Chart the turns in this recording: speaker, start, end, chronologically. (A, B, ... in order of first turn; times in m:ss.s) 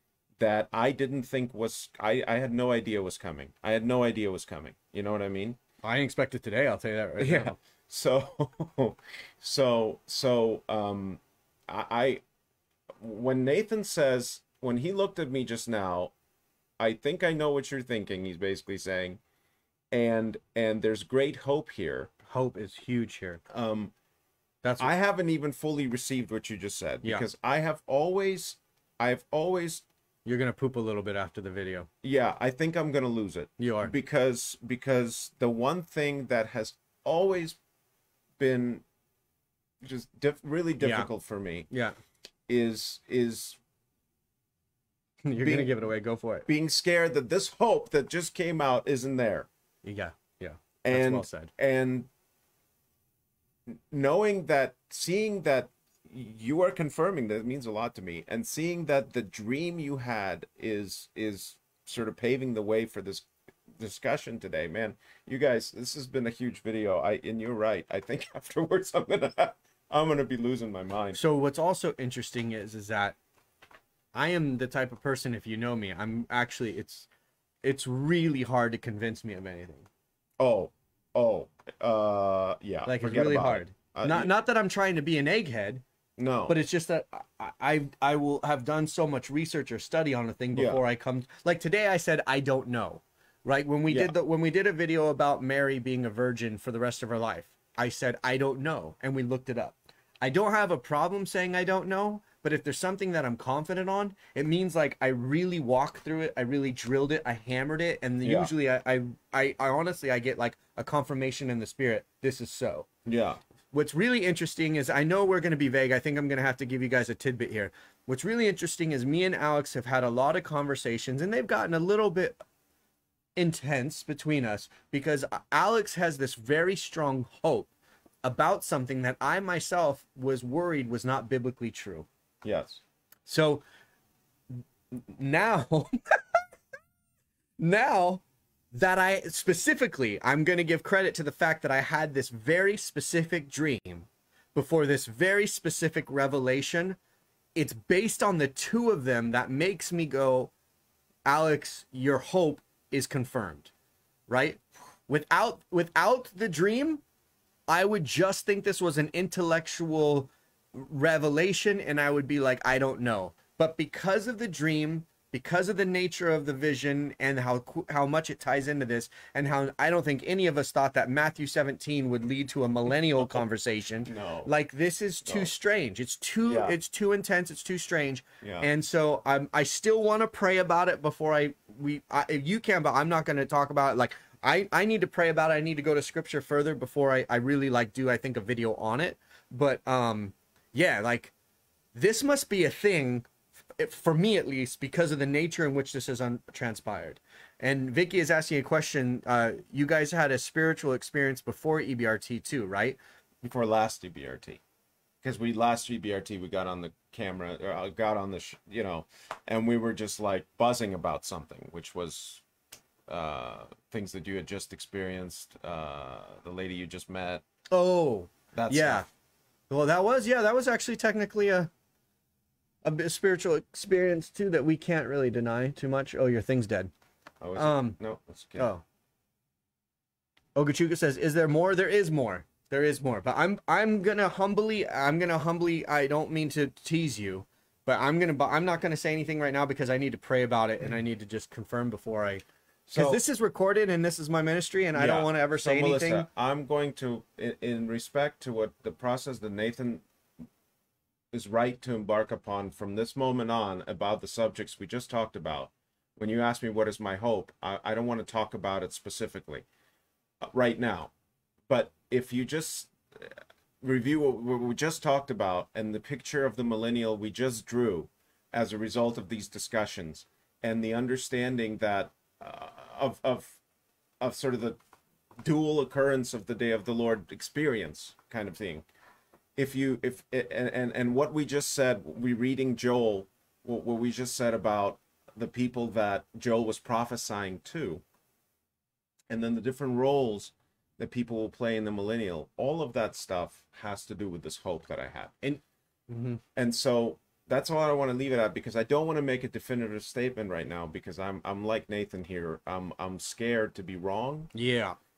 0:00.4-0:05.6 A
0:05.8-0:07.6 B
0:07.2-0:12.2 A
0:13.0-0:16.1 A
0:16.8-0:19.2 A
0:19.9-0:22.1 A
0:22.3-0:23.4 B
0:23.5-0:23.9 A
0:24.6-0:24.9 B
0:24.8-0:29.8 A
0:30.2-0:31.9 B
0:32.0-0:37.6 A
0:33.6-0:33.9 B
0:38.4-0:38.8 A
0:39.8-0:41.7 A
0:40.8-0:41.1 B
0:41.7-0:42.0 B
0:42.5-0:43.6 A
0:45.2-0:46.5 B
0:45.4-0:45.7 A
0:46.5-0:49.5 A
0:49.8-0:51.5 B
0:50.8-0:52.1 A
0:53.7-1:11.2 A
1:11.2-1:13.2 B
1:14.1-1:17.1 B
1:17.6-1:19.9 B
1:20.4-1:24.3 A
1:22.8-1:25.8 B
1:26.2-1:26.6 A
1:26.5-1:52.9 B
1:30.5-1:30.8 A
1:33.9-1:34.1 A
1:48.2-1:48.5 A
1:53.0-1:53.4 A
1:53.7-2:02.4 B
2:03.4-2:07.7 B
2:08.2-2:12.1 B
2:12.4-2:12.8 A
2:13.3-2:13.6 B
2:14.9-2:16.4 B
2:17.6-2:27.0 B
2:27.6-2:30.5 B
2:31.2-2:33.7 B
2:34.3-2:37.0 B
2:37.7-3:11.3 B
2:54.0-2:54.5 A
2:55.2-2:55.5 A
2:56.4-2:56.8 A
2:58.4-2:58.7 A
3:11.9-3:13.3 B
3:13.8-3:23.0 B
3:23.4-3:24.6 A
3:25.2-3:32.4 A
3:33.1-3:37.4 A
3:37.7-3:39.0 B
3:38.5-3:39.0 A
3:39.7-3:41.7 B
3:42.8-3:46.9 B
3:47.4-3:48.7 A
3:47.6-3:48.0 B
3:48.6-3:48.8 B
3:50.6-4:06.3 B
4:02.9-4:03.2 A
4:04.9-4:10.0 A
4:11.3-4:19.6 A
4:20.4-4:21.1 A
4:21.7-4:33.6 A
4:34.2-4:34.8 A
4:35.4-4:38.8 A
4:39.6-4:48.0 A
4:49.3-4:55.3 A
4:55.4-4:56.4 B
4:56.6-5:04.5 A
5:04.5-5:05.0 B